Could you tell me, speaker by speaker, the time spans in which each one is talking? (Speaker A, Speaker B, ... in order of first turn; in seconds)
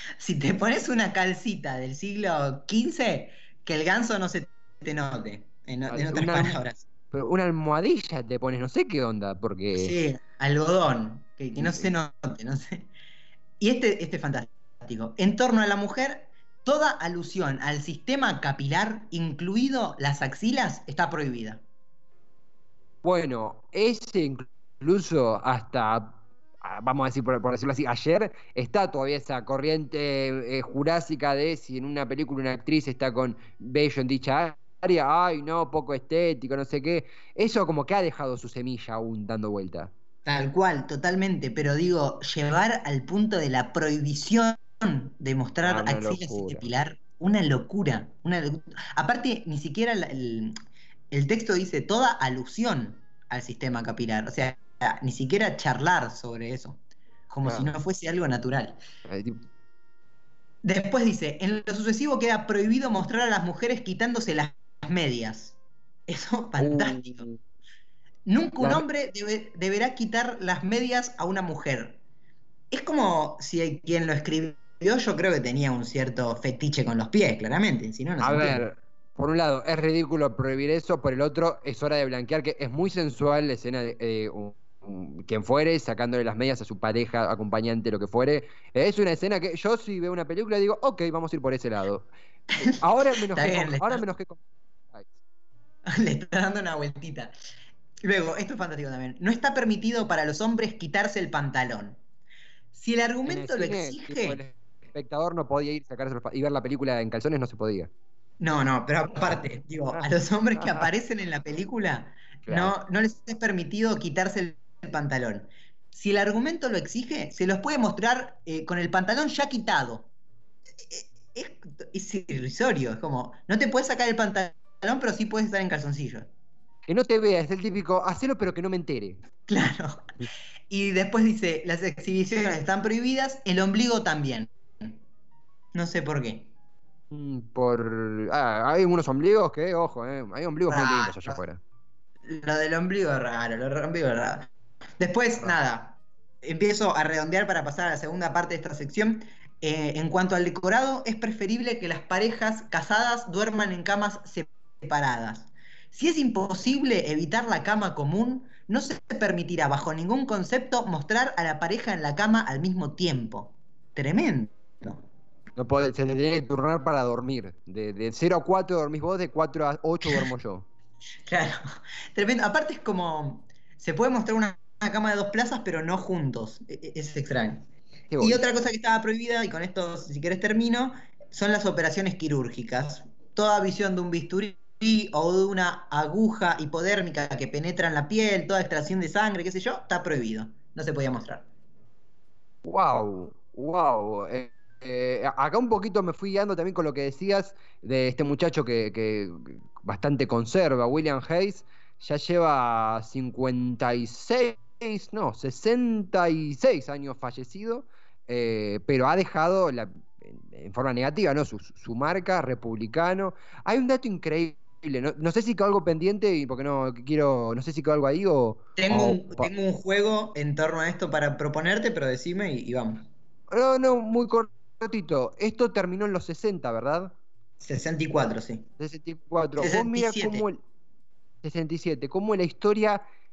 Speaker A: 0.2-6.8, 9.7-12.9, 13.6-21.6, 40.2-50.5, 51.1-58.8, 60.6-65.5, 66.1-67.2, 68.2-72.0, 72.7-78.6, 93.2-94.0, 95.8-97.3, 98.0-102.0, 102.7-104.4, 108.4-120.1, 120.8-126.3, 129.5-130.1, 130.7-135.0, 135.7-136.5, 140.7-141.4, 142.2-165.0, 171.2-171.6, 172.1-177.6, 178.2-191.4, 218.8-223.1, 227.6-228.7, 229.6-230.4
Speaker B: 5.9-6.6, 7.1-9.9, 11.5-11.9, 23.0-39.9, 45.6-46.6, 57.4-57.7, 59.0-59.4, 66.6-67.4, 78.2-92.1, 92.6-95.1, 103.2-107.9, 110.6-110.8, 112.4-112.7, 126.9-129.2, 137.1-141.6, 165.6-170.7, 178.1-178.4, 192.6-219.5, 223.5-227.1, 228.8-230.6, 231.4-233.0